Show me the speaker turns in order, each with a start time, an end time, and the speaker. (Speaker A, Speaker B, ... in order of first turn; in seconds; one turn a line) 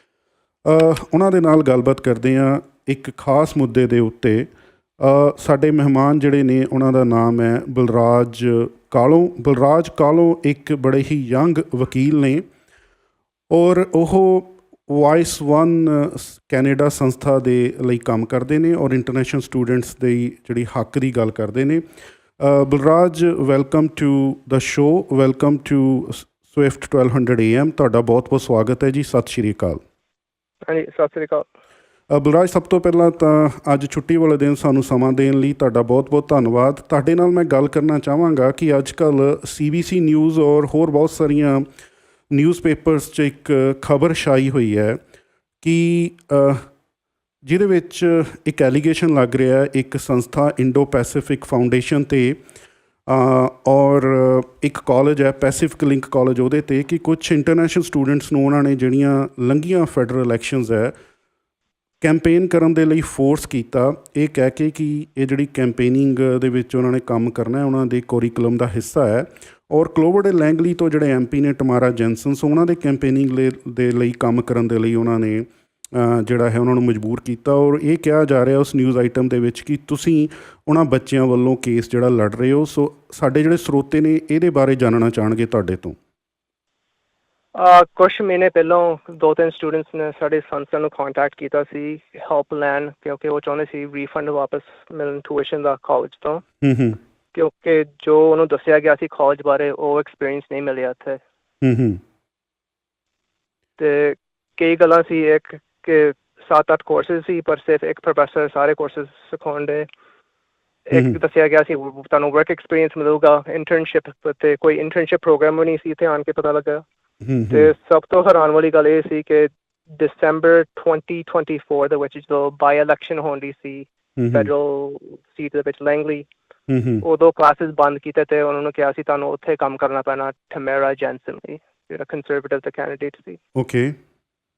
Speaker A: 0.7-4.5
Speaker A: 5.0-12.5
Speaker A: 13.5-21.8
Speaker A: 22.4-29.8
Speaker B: 30.7-31.5
Speaker A: 32.1-41.7
Speaker A: 42.3-45.0
Speaker A: 45.6-46.6
Speaker A: 47.5-52.4
Speaker A: 53.1-60.9
Speaker A: 62.0-86.0
Speaker B: 87.5-96.4
Speaker A: 96.6-97.0
Speaker B: 97.3-101.2
Speaker A: 101.6-102.0
Speaker B: 103.8-109.9
Speaker B: 110.9-116.8
Speaker A: 117.2-117.7
Speaker B: 117.5-126.3
Speaker A: 124.2-124.5
Speaker A: 126.7-127.0
Speaker B: 127.0-133.4
Speaker A: 133.6-134.0